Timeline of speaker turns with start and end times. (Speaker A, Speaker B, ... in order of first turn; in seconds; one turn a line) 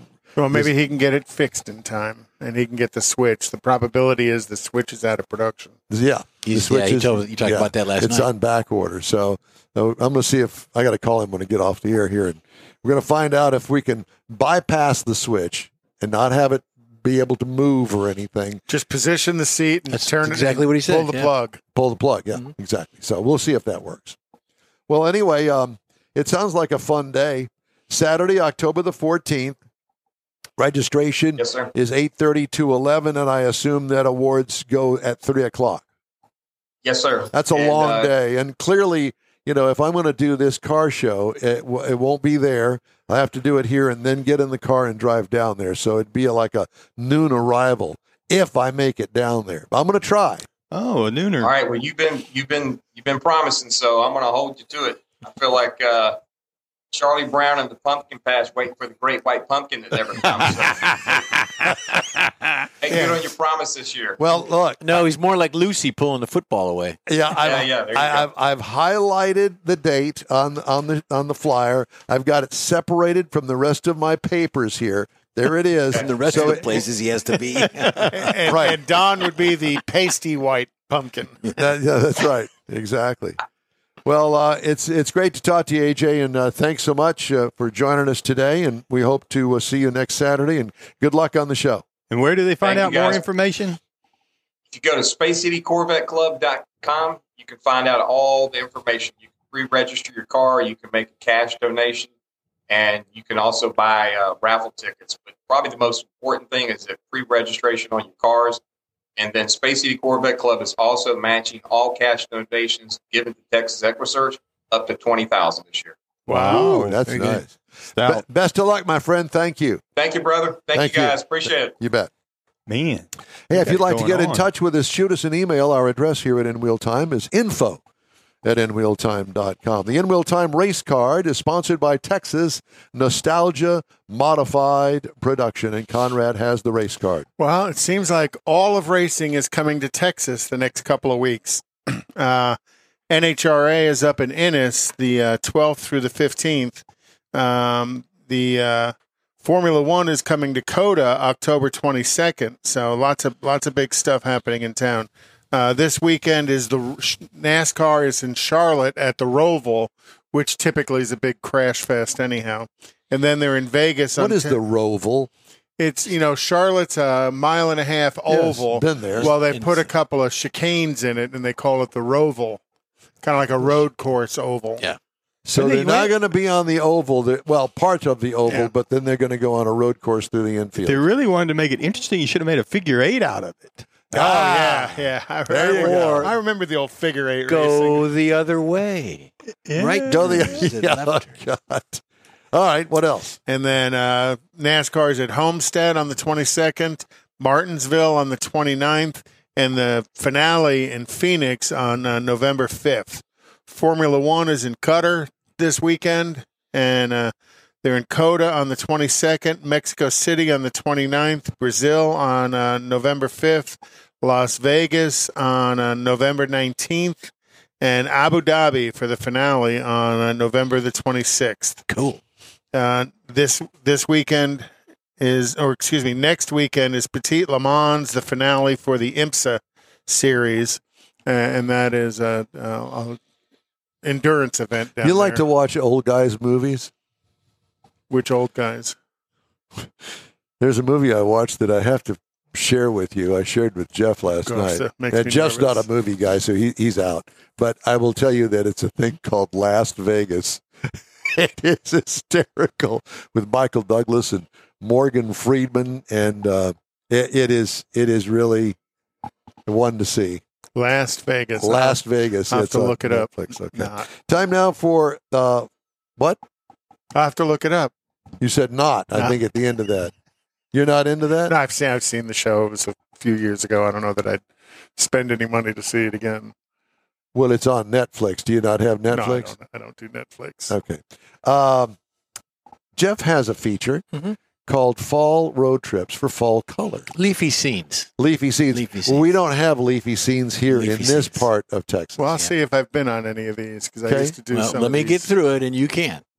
Speaker A: 0.4-5.8
Speaker B: 5.9-18.6
Speaker C: 6.4-8.3
Speaker A: 18.7-21.6
Speaker C: 19.9-21.3
Speaker B: 21.8-24.2
Speaker B: 24.9-29.6
Speaker B: 30.6-35.8
Speaker D: 31.4-31.7
Speaker D: 36.8-38.1
Speaker B: 37.3-50.5
Speaker E: 50.7-51.5
Speaker D: 51.4-56.2
Speaker D: 56.9-60.9
Speaker E: 60.2-61.8
Speaker D: 62.8-64.2
Speaker B: 64.2-64.9
Speaker C: 64.8-67.0
Speaker B: 67.1-76.8
Speaker D: 67.4-68.3
Speaker C: 76.0-78.4
Speaker A: 78.0-81.5
Speaker B: 78.5-78.8
Speaker B: 81.6-83.4
Speaker B: 84.0-91.8
Speaker E: 92.1-93.8
Speaker D: 92.6-93.2
Speaker D: 94.7-102.1
Speaker D: 102.7-108.6
Speaker D: 109.2-116.0
Speaker E: 116.3-117.4
Speaker B: 116.3-119.8
Speaker A: 116.4-116.7
Speaker E: 118.0-118.2
Speaker D: 120.0-121.8
Speaker B: 120.8-122.1
Speaker E: 122.7-124.5
Speaker B: 123.5-127.8
Speaker B: 128.4-137.3
Speaker A: 137.4-142.6
Speaker A: 143.1-164.6
Speaker B: 164.2-165.3
Speaker A: 165.8-172.6
Speaker B: 168.3-169.3
Speaker C: 169.2-169.9
Speaker A: 173.2-174.8
Speaker B: 175.5-181.1
Speaker E: 175.6-176.1
Speaker E: 180.8-183.9
Speaker B: 184.1-186.3
Speaker A: 184.1-188.1
Speaker C: 185.7-186.3
Speaker C: 187.5-191.4
Speaker E: 189.7-190.6
Speaker B: 190.1-193.4
Speaker A: 193.5-217.2
Speaker A: 217.8-221.9
Speaker C: 221.9-222.2
Speaker A: 222.7-233.2
Speaker A: 234.0-235.4
Speaker B: 235.0-236.9
Speaker A: 238.1-239.0
Speaker B: 240.6-250.6
Speaker A: 244.4-245.8
Speaker B: 251.3-258.8
Speaker B: 259.7-260.4
Speaker A: 260.8-264.1
Speaker B: 261.6-266.4
Speaker A: 267.1-267.9
Speaker B: 268.4-270.1
Speaker B: 270.7-271.5
Speaker A: 271.5-274.4
Speaker A: 275.0-276.6
Speaker B: 277.3-279.5
Speaker A: 279.1-280.7
Speaker B: 280.7-282.0
Speaker B: 283.0-284.1
Speaker B: 284.7-287.1
Speaker C: 287.1-288.1
Speaker B: 288.2-292.3
Speaker C: 288.7-289.3
Speaker C: 290.7-291.5
Speaker A: 292.2-295.3
Speaker B: 294.1-294.4
Speaker C: 294.5-296.2